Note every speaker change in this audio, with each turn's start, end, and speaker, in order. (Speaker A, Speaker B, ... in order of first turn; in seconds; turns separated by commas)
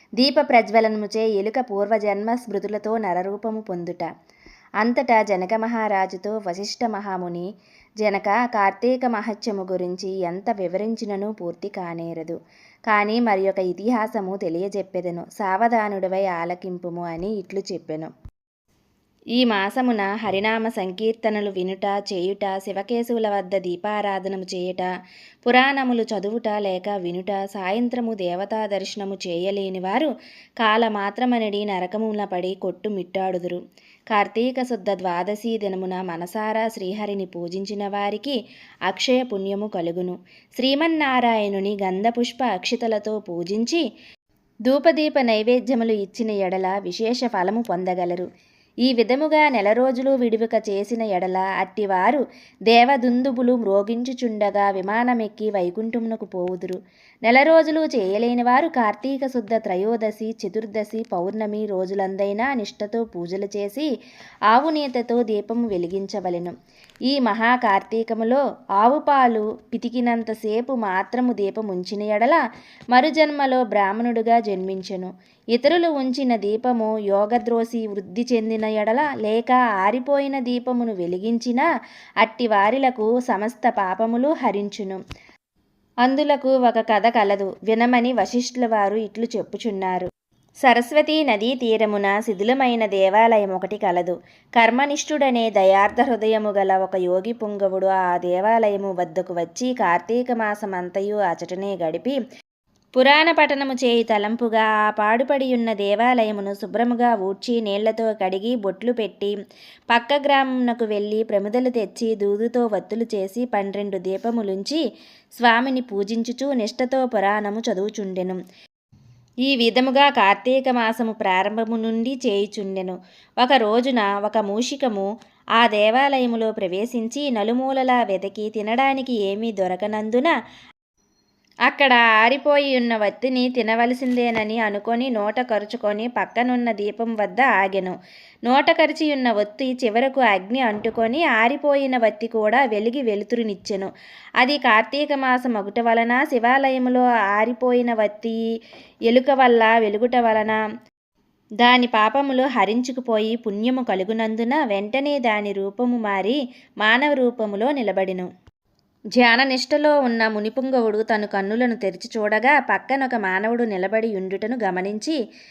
Speaker A: 0.2-4.1, Speaker A: 4.8-7.5, Speaker A: 8.0-12.4, Speaker A: 12.9-18.1, Speaker A: 19.4-24.9, Speaker A: 25.4-30.1, Speaker A: 30.6-38.4, Speaker A: 38.9-43.8, Speaker A: 44.7-48.2, Speaker A: 48.9-63.9, Speaker A: 64.5-66.5, Speaker A: 67.1-72.4, Speaker A: 72.9-81.7, Speaker A: 82.2-85.0, Speaker A: 86.0-90.1, Speaker A: 90.6-102.2, Speaker A: 103.0-109.3, Speaker A: 109.9-114.8, Speaker A: 115.4-118.4, Speaker A: 119.5-125.1, Speaker A: 125.6-130.3, Speaker A: 131.7-137.9, Speaker A: 138.5-148.4, Speaker A: 149.1-150.6, Speaker A: 151.6-158.3, Speaker A: 159.2-165.2